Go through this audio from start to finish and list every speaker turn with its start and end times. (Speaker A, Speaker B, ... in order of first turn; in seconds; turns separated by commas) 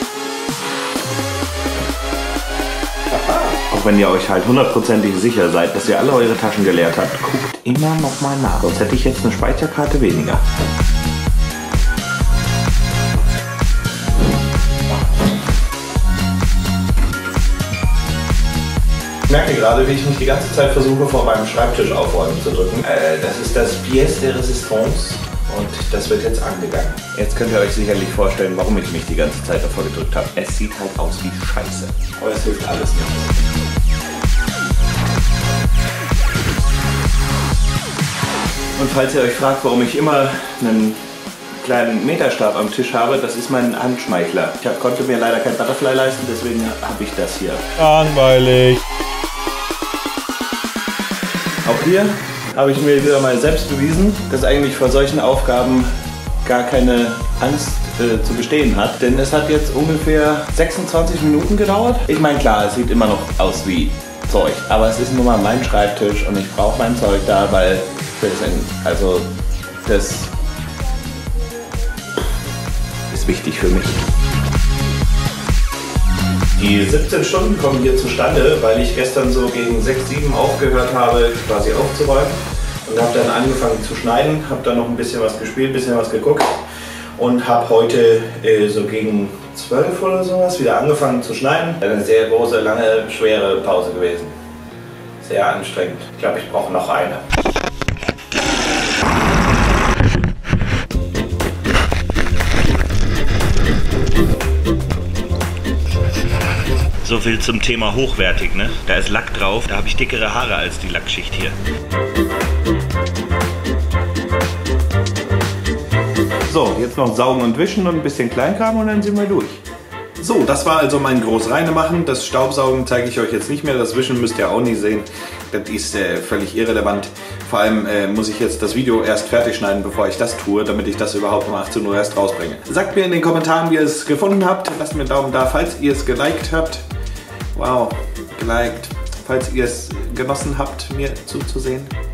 Speaker A: 3.5-10.4, Speaker A: 19.3-33.3, Speaker A: 38.8-41.0, Speaker A: 41.6-48.9, Speaker A: 51.6-55.9, Speaker A: 56.5-69.3, Speaker A: 69.8-70.3, Speaker A: 73.1-74.0, Speaker A: 76.6-86.6, Speaker A: 87.2-94.3, Speaker A: 95.2-97.2, Speaker A: 107.0-111.6, Speaker A: 116.5-119.6, Speaker A: 120.2-136.8, Speaker A: 137.5-141.9